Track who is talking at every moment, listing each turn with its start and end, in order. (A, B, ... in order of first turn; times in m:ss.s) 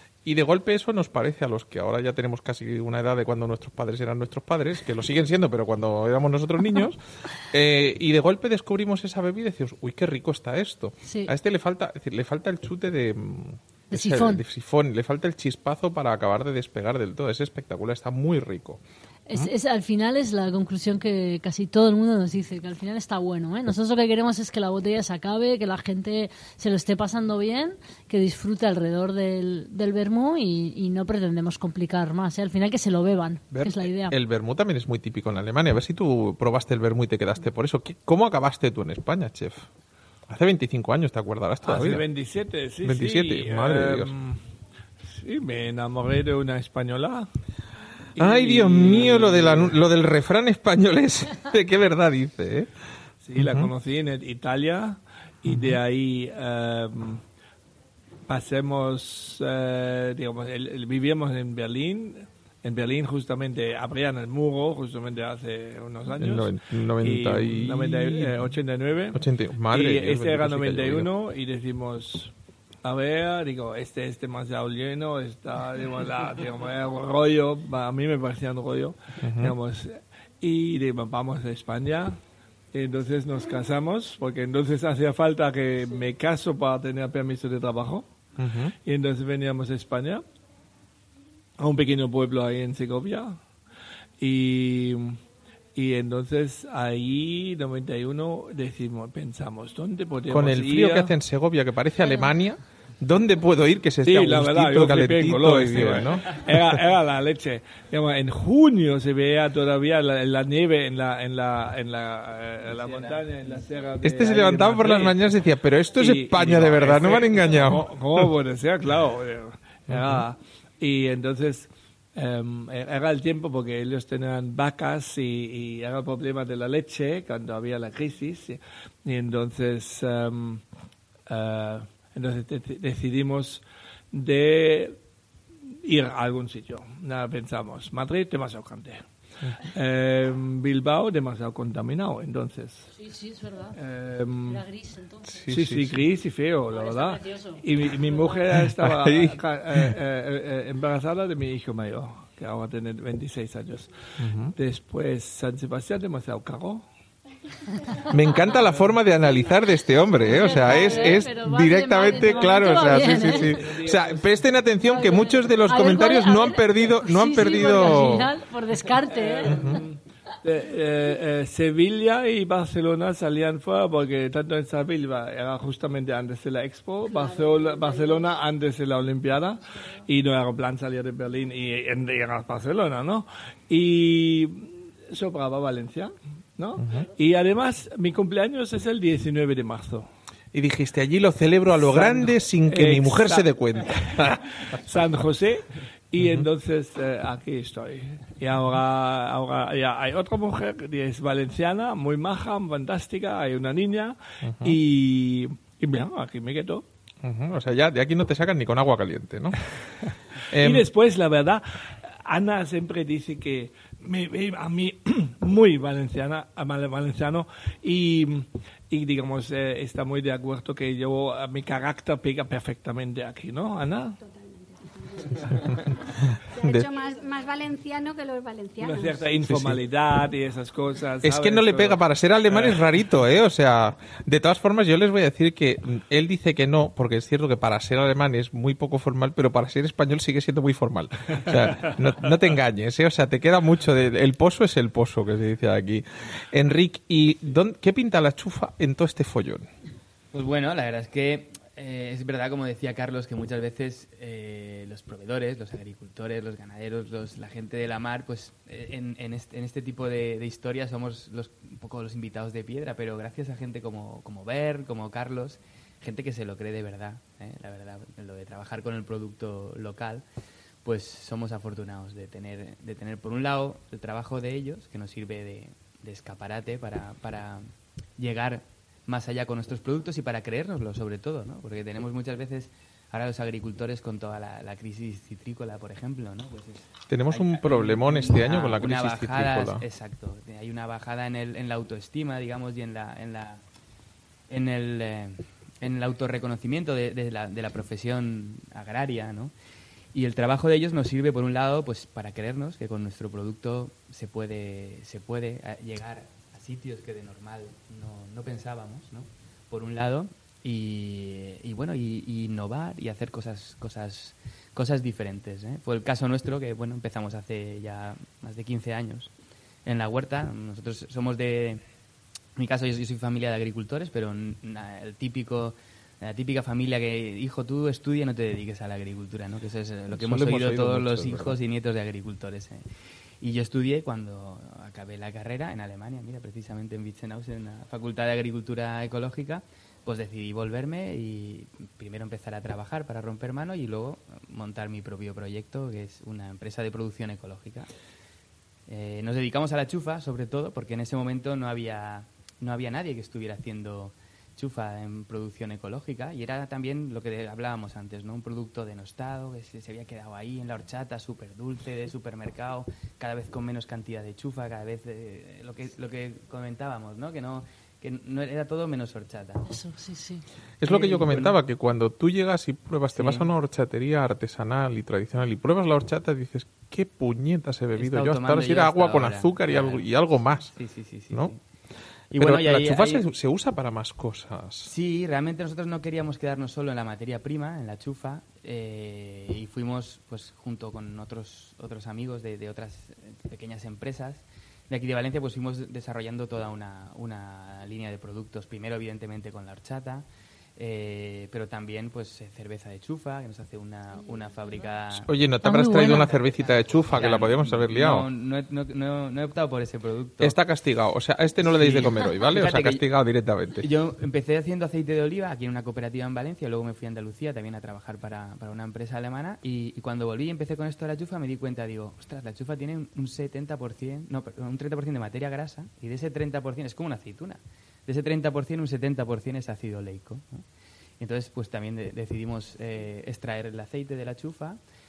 0:00.2-0:18.8 A
0:11.0-0:11.3 B
0:13.9-0:14.4 B
0:19.3-0:34.1 B
0:33.5-0:39.7 A
0:40.3-0:42.0 A
0:41.6-0:44.4 C
0:42.8-0:44.1 A
0:45.1-0:47.3 C
0:48.2-0:49.8 C
0:48.2-0:52.7 A
0:53.2-0:57.2 C
0:53.4-0:53.7 A
0:55.4-0:55.8 A
0:58.3-1:22.2 C
1:06.2-1:08.5 A
1:09.1-1:11.1 A
1:19.2-1:19.5 A
1:22.7-1:28.0 C
1:28.4-1:28.7 A
1:28.8-1:30.2 C
1:31.6-1:33.4 C
1:34.2-1:35.2 C
1:35.7-1:41.1 C
1:40.3-1:46.8 A
1:44.0-1:55.2 C
1:52.9-1:53.2 D
1:54.0-1:58.3 A
1:56.0-2:10.6 C
1:59.9-2:00.2 A
2:11.3-2:15.0 C
2:15.8-2:19.0 C
2:19.7-2:22.9 C
2:22.9-2:23.8 B
2:23.8-2:24.6 C
2:24.5-2:25.5 B
2:25.4-2:26.0 A
2:25.5-2:33.9 C
2:26.7-2:28.4 B
2:28.6-2:29.9 A
2:34.2-2:34.5 A
2:34.6-2:36.8 C
2:38.1-2:48.3 A
2:40.2-2:43.8 B
2:40.7-2:41.1 C
2:43.2-2:44.2 C
2:44.9-2:49.7 B
2:49.0-3:10.1 C
2:49.5-2:49.8 A
3:06.8-3:07.1 A
3:10.5-3:14.8 A
3:11.7-3:26.8 C
3:16.2-3:16.5 A
3:24.4-3:24.8 A
3:27.2-3:29.6 A
3:30.5-3:30.9 A
3:30.5-3:44.2 C
3:44.2-3:45.9 E
3:46.3-3:46.8 A
3:46.5-3:49.3 E
3:48.8-3:52.8 C
3:49.4-3:49.8 A
3:51.2-4:09.7 A
4:10.3-4:30.2 D
4:30.8-4:53.6 D
4:47.1-4:49.8 A
4:54.5-4:59.5 D
5:00.1-5:19.3 D
5:19.8-5:21.8 D
5:22.6-5:32.9 D
5:30.1-5:31.6 A
5:33.4-5:47.9 D
5:48.9-6:09.7 D
6:09.7-6:10.4 B
6:10.8-6:20.7 A
6:10.8-6:11.6 D
6:13.1-6:13.5 D
6:18.0-6:21.6 D
6:22.3-6:23.2 D
6:22.4-6:24.9 A
6:24.9-6:45.3 D
6:45.1-6:48.2 A
6:45.6-6:46.3 B
6:46.0-6:50.6 D
6:50.4-6:53.8 A
6:51.6-6:53.0 D
6:53.8-7:10.6 D
7:11.2-7:14.8 D